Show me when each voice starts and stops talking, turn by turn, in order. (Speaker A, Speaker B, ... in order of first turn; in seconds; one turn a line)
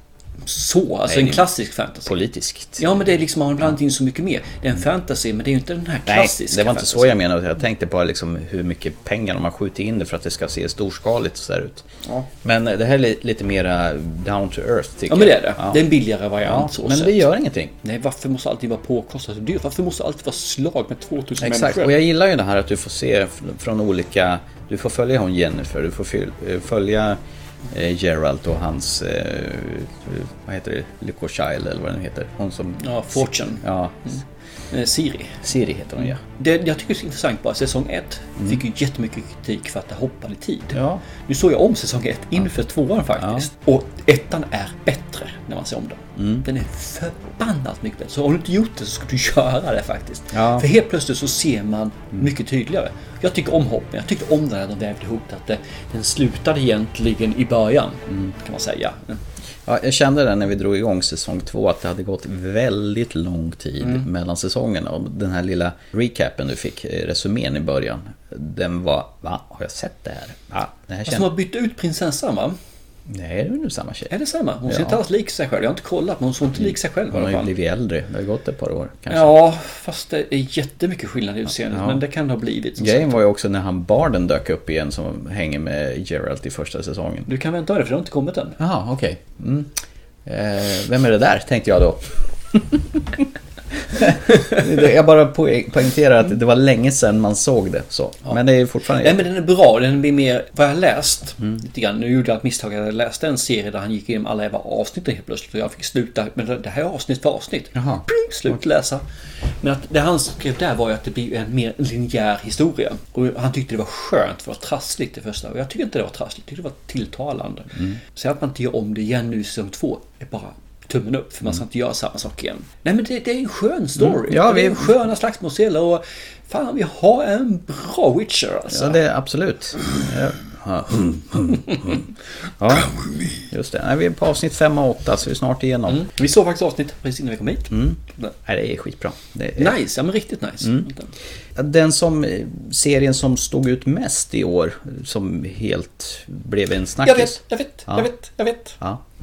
Speaker A: 0.5-2.1
Speaker B: 1.1-1.4
Speaker B: 2.0-2.9
Speaker A: 2.8-7.2
Speaker B: 6.1-15.8
Speaker A: 15.1-17.2
Speaker B: 16.4-17.7
Speaker A: 17.8-21.9
Speaker B: 21.4-27.2
Speaker B: 27.7-34.1
Speaker A: 32.8-35.4
Speaker B: 35.4-36.2
Speaker A: 36.0-59.2
Speaker B: 40.7-41.0
Speaker B: 43.2-43.5
Speaker B: 46.2-46.4
Speaker B: 50.3-50.6
Speaker B: 59.6-71.3
Speaker A: 71.1-72.5
Speaker B: 73.1-74.1
Speaker A: 74.1-77.5
Speaker B: 74.7-75.0
Speaker B: 76.6-79.3
Speaker A: 79.1-83.2
Speaker B: 81.7-82.0
Speaker B: 82.8-87.3
Speaker A: 87.3-88.6
Speaker B: 88.6-93.2
Speaker B: 93.9-99.3
Speaker A: 99.0-109.0
Speaker B: 107.7-108.0
Speaker A: 109.6-129.0
Speaker B: 124.0-124.9
Speaker B: 128.7-132.9
Speaker B: 133.5-136.1
Speaker A: 135.9-138.3
Speaker B: 137.7-139.8
Speaker A: 139.6-141.1
Speaker B: 141.6-148.1
Speaker A: 147.0-148.8